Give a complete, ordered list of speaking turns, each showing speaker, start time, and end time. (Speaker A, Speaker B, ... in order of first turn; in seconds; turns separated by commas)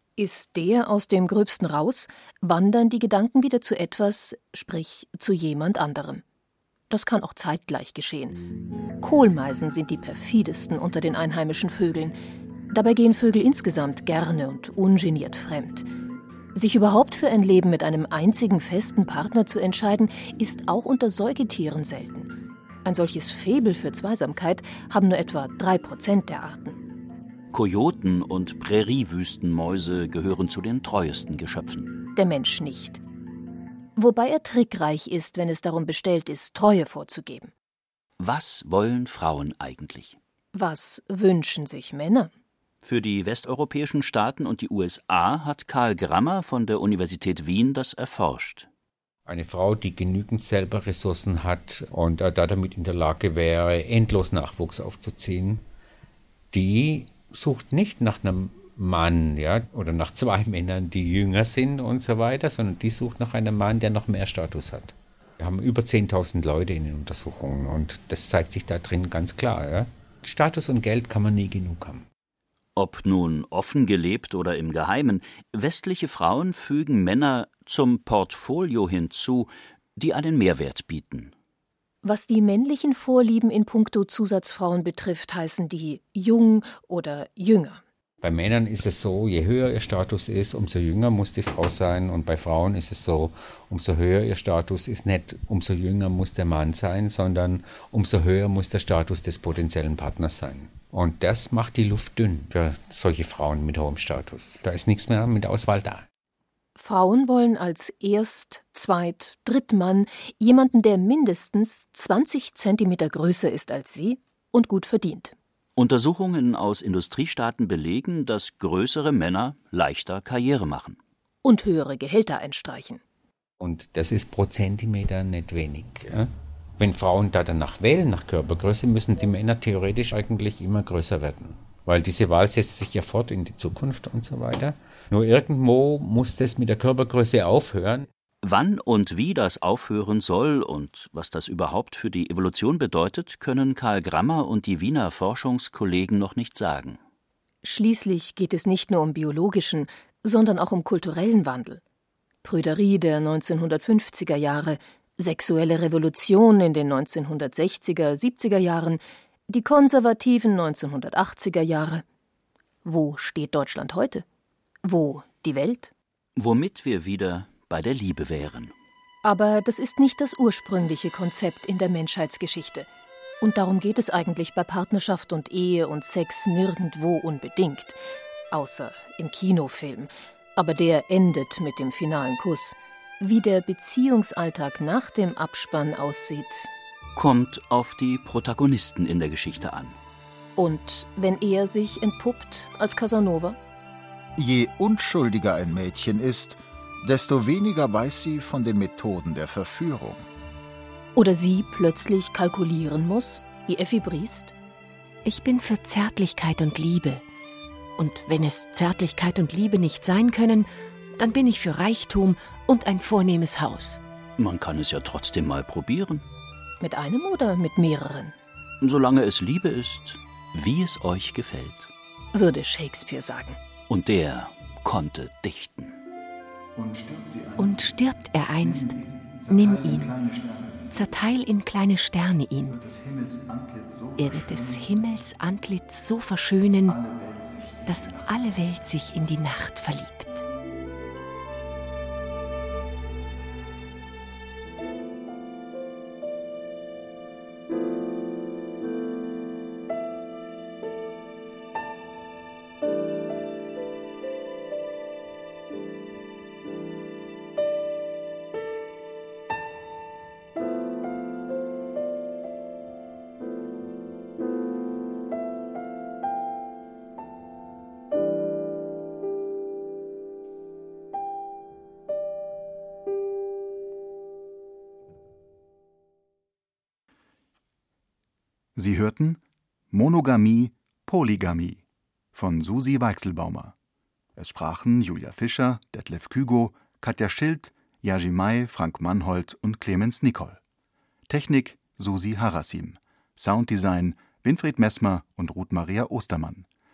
Speaker A: 0.2-6.2, Speaker A: 6.9-8.4, Speaker A: 9.0-12.2, Speaker A: 12.7-15.9, Speaker A: 16.5-22.3, Speaker A: 22.8-26.8, Speaker B: 27.5-31.9, Speaker A: 32.1-33.0, Speaker A: 34.0-37.5, Speaker B: 38.2-40.1, Speaker A: 40.5-42.3, Speaker B: 42.8-48.7, Speaker C: 49.2-55.6, Speaker C: 56.5-72.0, Speaker B: 72.8-81.3, Speaker A: 82.0-87.8, Speaker C: 88.2-106.0, Speaker A: 106.8-115.3, Speaker B: 115.8-121.0, Speaker A: 121.4-123.0, Speaker C: 123.6-138.1, Speaker B: 138.4-147.0, Speaker A: 147.6-151.8, Speaker A: 152.4-162.0, Speaker A: 162.8-164.2, Speaker A: 164.8-165.9, Speaker B: 166.4-168.7, Speaker A: 169.2-172.9, Speaker A: 173.4-178.0, Speaker A: 178.5-186.7, Speaker B: 187.2-190.0, Speaker A: 190.6-193.6, Speaker D: 194.3-200.2, Speaker A: 201.1-204.5, Speaker E: 205.2-207.2, Speaker E: 208.0-214.0, Speaker B: 214.4-216.2, Speaker A: 216.8-218.3, Speaker B: 218.8-221.9, Speaker A: 222.3-223.6, Speaker B: 223.9-225.9, Speaker F: 226.7-228.0, Speaker E: 227.6-229.0, Speaker F: 228.6-231.1, Speaker E: 229.5-230.1, Speaker E: 230.9-232.8, Speaker F: 232.7-235.2, Speaker E: 234.2-237.0, Speaker F: 236.6-238.5, Speaker E: 237.8-240.4, Speaker F: 278.7-281.8, Speaker F: 282.3-283.7, Speaker F: 284.4-290.6, Speaker F: 291.3-296.7